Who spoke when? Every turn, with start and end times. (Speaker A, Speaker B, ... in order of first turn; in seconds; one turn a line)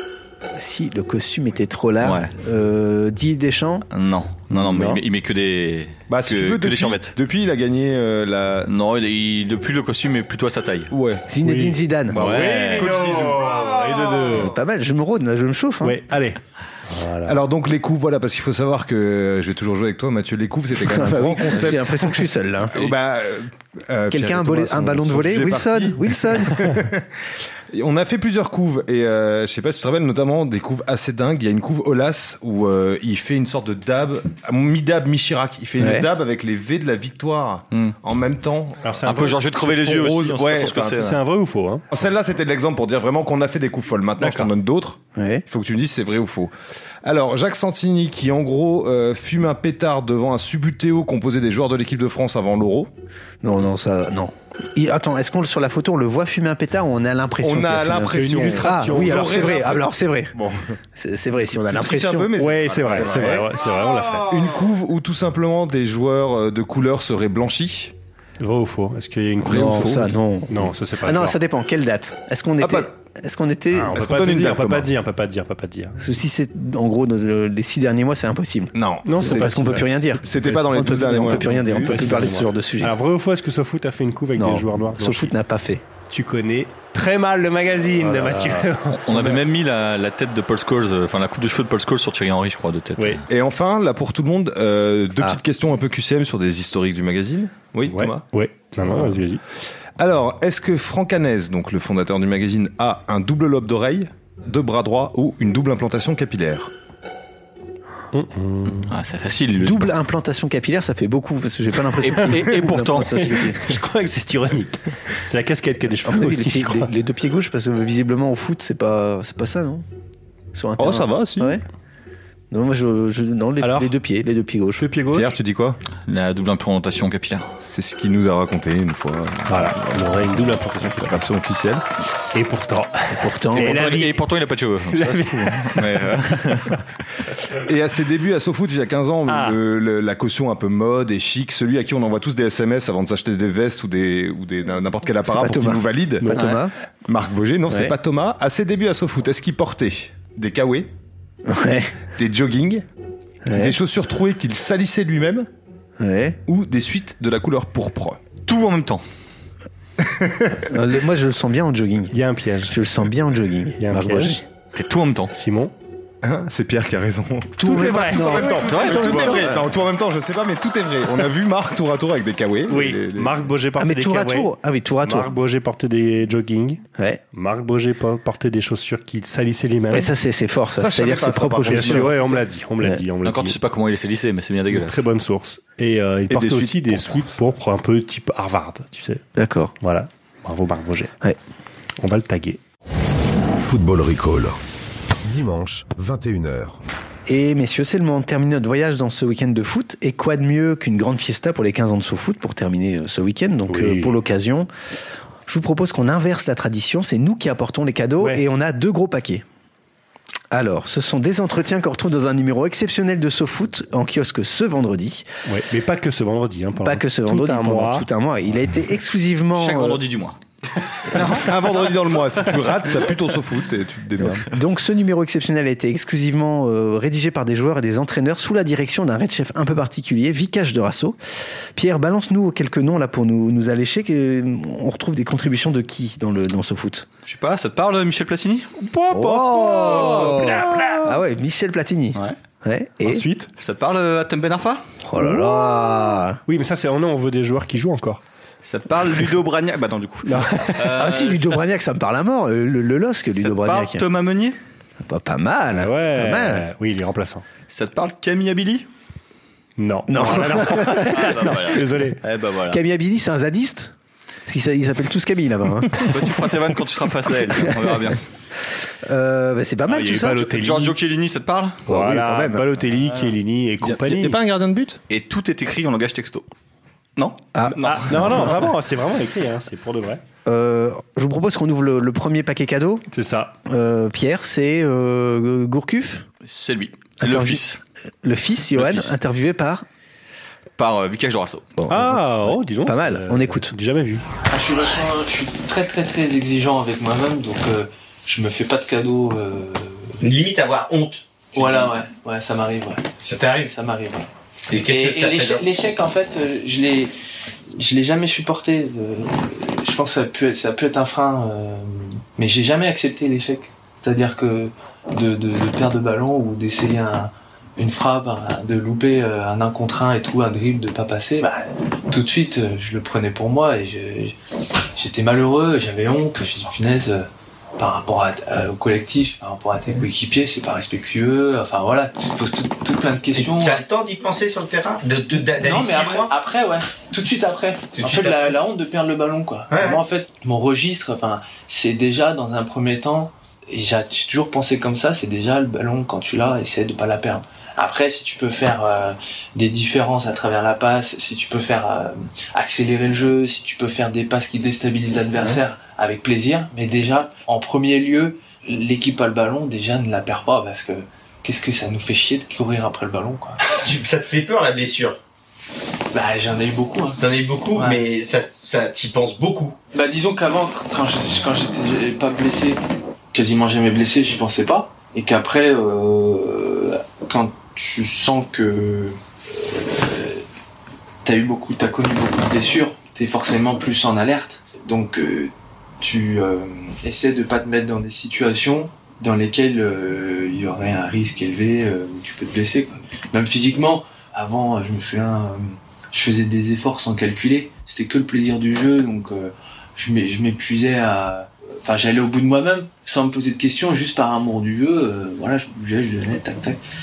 Speaker A: 0.6-3.9
Speaker B: 2.0-2.3
Speaker B: 3.9-7.1
Speaker C: 4.5-5.0
Speaker D: 6.1-8.7
Speaker B: 8.7-10.9
Speaker D: 10.9-11.3
Speaker A: 11.3-12.3
Speaker C: 11.4-14.5
Speaker B: 12.1-13.4
Speaker D: 12.2-14.4
Speaker A: 14.3-16.0
Speaker C: 15.8-17.4
Speaker D: 17.3-27.1
Speaker A: 20.8-22.8
Speaker A: 24.1-26.8
Speaker D: 27.7-41.2
Speaker A: 35.8-36.1
Speaker C: 38.8-39.4
Speaker B: 39.1-41.2
Speaker C: 41.0-41.9
Speaker D: 41.9-46.5
Speaker B: 44.2-44.5
Speaker A: 45.2-45.4
Speaker D: 47.0-52.9
Speaker A: 53.4-60.3
Speaker D: 57.4-60.8
Speaker C: 58.1-59.6
Speaker A: 61.0-62.3
Speaker D: 61.5-63.5
Speaker C: 62.4-64.5
Speaker A: 63.0-63.3
Speaker D: 64.1-67.9
Speaker C: 68.4-71.4
Speaker D: 69.4-70.1
Speaker A: 69.5-74.0
Speaker D: 72.6-72.9
Speaker C: 73.7-76.0
Speaker D: 73.9-74.9
Speaker A: 76.0-83.0
Speaker D: 78.7-82.4
Speaker C: 79.0-85.3
Speaker A: 84.4-85.8
Speaker C: 86.1-89.4
Speaker B: 88.9-93.3
Speaker C: 93.0-93.2
Speaker D: 93.3-98.2
Speaker C: 97.9-99.4
Speaker D: 98.8-99.2
Speaker D: 100.0-106.7
Speaker C: 108.1-108.9
Speaker B: 108.9-110.0
Speaker A: 109.6-113.6
Speaker B: 112.0-113.5
Speaker C: 112.1-116.9
Speaker A: 116.0-119.8
Speaker A: 120.5-121.6
Speaker D: 120.8-121.6
Speaker A: 122.5-124.9
Speaker C: 123.6-123.9
Speaker C: 124.8-125.3
Speaker D: 125.1-125.8
Speaker B: 126.1-127.5
Speaker D: 127.6-131.8
Speaker C: 129.5-131.2
Speaker C: 132.3-134.2
Speaker A: 133.1-133.9
Speaker B: 133.6-136.7
Speaker C: 134.9-135.8
Speaker D: 135.8-136.8
Speaker D: 137.5-150.9
Speaker C: 139.3-139.6
Speaker A: 145.3-146.7
Speaker C: 146.2-146.6
Speaker A: 147.7-147.9
Speaker A: 151.5-152.0
Speaker D: 152.1-152.8
Speaker A: 153.4-153.8
Speaker D: 153.5-155.5
Speaker A: 156.0-156.4
Speaker D: 156.5-158.2
Speaker B: 158.5-159.0
Speaker D: 160.0-160.6
Speaker A: 160.7-162.2
Speaker C: 162.1-162.8
Speaker A: 162.7-164.4
Speaker C: 163.8-164.4
Speaker B: 164.7-165.3
Speaker C: 165.3-165.7
Speaker D: 166.2-173.5
Speaker A: 167.6-169.6
Speaker C: 167.6-169.5
Speaker B: 168.7-169.4
Speaker C: 172.7-174.5
Speaker A: 173.8-175.3
Speaker C: 175.0-176.8
Speaker A: 177.0-177.2
Speaker C: 177.3-180.1
Speaker A: 179.9-182.2
Speaker D: 180.7-182.4
Speaker C: 181.7-183.6
Speaker B: 183.2-185.0
Speaker C: 184.7-189.2
Speaker D: 186.3-187.3
Speaker A: 189.4-189.7
Speaker C: 189.8-191.1
Speaker C: 192.0-192.6
Speaker E: 193.6-194.6
Speaker E: 195.2-196.8
Speaker A: 197.3-204.7
Speaker C: 203.7-204.2
Speaker A: 205.5-209.4
Speaker C: 208.2-208.4
Speaker A: 210.5-215.3
Speaker C: 215.5-218.1
Speaker A: 216.8-220.0
Speaker B: 219.6-220.4
Speaker B: 221.0-222.0
Speaker D: 221.2-224.5
Speaker A: 224.2-231.2
Speaker A: 231.8-237.1
Speaker B: 237.3-240.8
Speaker C: 239.1-241.0
Speaker A: 239.1-243.3
Speaker C: 243.1-243.5
Speaker B: 243.6-244.8
Speaker A: 245.0-246.4
Speaker C: 245.2-245.6
Speaker C: 246.5-248.2
Speaker B: 248.6-251.6
Speaker C: 250.2-250.9
Speaker A: 250.9-254.0
Speaker B: 253.3-254.6
Speaker A: 255.0-256.7
Speaker C: 255.7-257.4
Speaker B: 257.7-258.9
Speaker C: 259.8-262.2
Speaker A: 260.1-261.8
Speaker B: 260.9-262.8
Speaker A: 262.7-263.9
Speaker A: 264.5-266.5
Speaker B: 266.0-268.2
Speaker A: 267.7-268.0
Speaker A: 269.1-270.5
Speaker C: 269.9-271.0
Speaker B: 270.5-271.8
Speaker A: 271.9-272.7
Speaker C: 271.9-274.4
Speaker D: 273.8-275.0
Speaker B: 275.1-276.4
Speaker B: 277.2-278.5
Speaker A: 277.6-278.6
Speaker C: 277.8-280.2
Speaker A: 280.5-283.1
Speaker C: 283.1-283.6
Speaker A: 283.7-286.3
Speaker B: 286.5-287.8
Speaker A: 287.2-287.7
Speaker A: 288.2-289.8
Speaker B: 288.7-289.2
Speaker B: 290.8-291.7
Speaker A: 291.8-293.7
Speaker C: 291.9-294.2
Speaker F: 294.5-300.2
Speaker G: 300.2-301.9
Speaker F: 301.5-307.1
Speaker G: 303.2-303.7
Speaker G: 304.7-305.6
Speaker F: 307.8-324.4
Speaker F: 325.0-333.8
Speaker G: 333.4-336.3
Speaker F: 335.5-363.6
Speaker G: 337.9-338.6
Speaker G: 339.7-340.0
Speaker G: 363.7-365.2
Speaker F: 366.1-368.1
Speaker G: 367.2-369.8
Speaker F: 369.9-372.8
Speaker F: 373.3-380.4
Speaker F: 381.2-406.8